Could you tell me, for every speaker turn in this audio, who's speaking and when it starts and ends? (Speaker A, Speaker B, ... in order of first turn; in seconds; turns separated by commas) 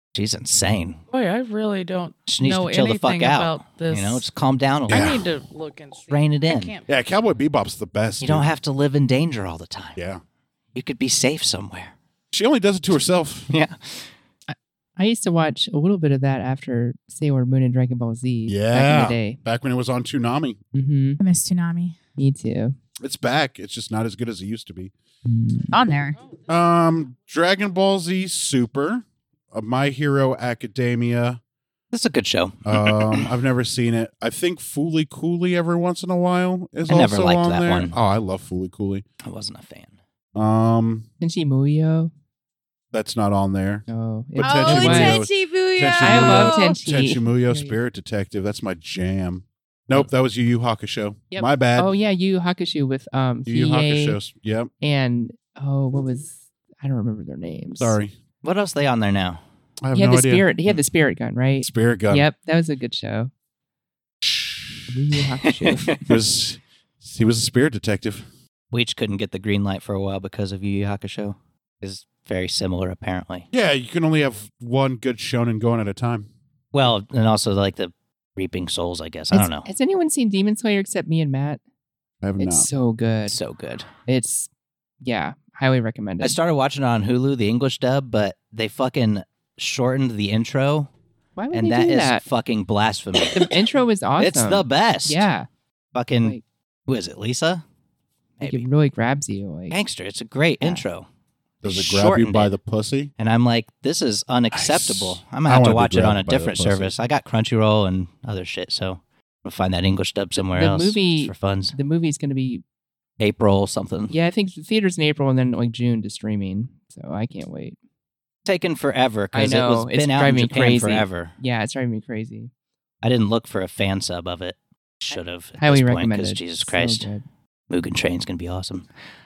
Speaker A: 0.1-1.0, Speaker B: 1.1-4.2, Speaker A: 2.2-5.2, Speaker B: 4.9-6.9, Speaker C: 4.9-5.2, Speaker A: 6.1-6.7, Speaker C: 6.9-8.5, Speaker A: 8.2-10.0, Speaker C: 9.9-10.2, Speaker A: 10.7-11.9, Speaker C: 12.3-13.5, Speaker A: 13.5-14.1, Speaker D: 14.5-19.4, Speaker C: 18.5-20.6, Speaker D: 20.7-21.2, Speaker E: 21.2-21.9, Speaker D: 22.2-22.8, Speaker C: 23.0-24.9, Speaker D: 25.2-25.8, Speaker E: 25.7-26.2, Speaker C: 26.5-31.4, Speaker A: 31.9-33.3, Speaker C: 32.6-39.0, Speaker A: 36.8-38.0, Speaker A: 39.2-39.9, Speaker C: 40.3-41.1, Speaker D: 41.2-42.1, Speaker C: 42.9-51.9, Speaker D: 43.9-45.2, Speaker E: 44.4-46.8, Speaker D: 46.0-47.8, Speaker D: 51.3-54.2, Speaker C: 53.5-54.7, Speaker D: 54.8-58.0, Speaker C: 57.8-58.1, Speaker A: 58.4-59.4, Speaker C: 59.8-60.6, Speaker D: 59.9-63.3, Speaker C: 61.6-62.3, Speaker C: 64.2-64.9, Speaker D: 64.9-66.0, Speaker A: 65.5-66.0, Speaker C: 66.1-68.3, Speaker A: 68.7-73.5, Speaker C: 73.5-76.3, Speaker A: 76.7-79.7, Speaker D: 79.3-81.6, Speaker C: 82.2-82.7, Speaker D: 82.4-83.4, Speaker A: 83.2-83.9, Speaker D: 84.1-84.5, Speaker D: 85.0-86.4, Speaker A: 86.2-90.9, Speaker D: 91.3-92.2, Speaker A: 91.5-93.5, Speaker D: 93.3-95.5, Speaker A: 94.2-95.2, Speaker A: 95.9-97.6, Speaker A: 98.4-98.7, Speaker D: 98.4-99.8, Speaker A: 99.7-101.0, Speaker C: 101.6-103.1, Speaker A: 101.6-102.5, Speaker A: 103.2-111.7, Speaker C: 104.5-106.9, Speaker D: 110.4-112.6, Speaker A: 113.2-114.2, Speaker D: 114.1-117.8, Speaker A: 118.5-121.3, Speaker D: 119.3-122.5, Speaker A: 123.0-127.1, Speaker D: 125.6-127.2, Speaker A: 127.7-128.8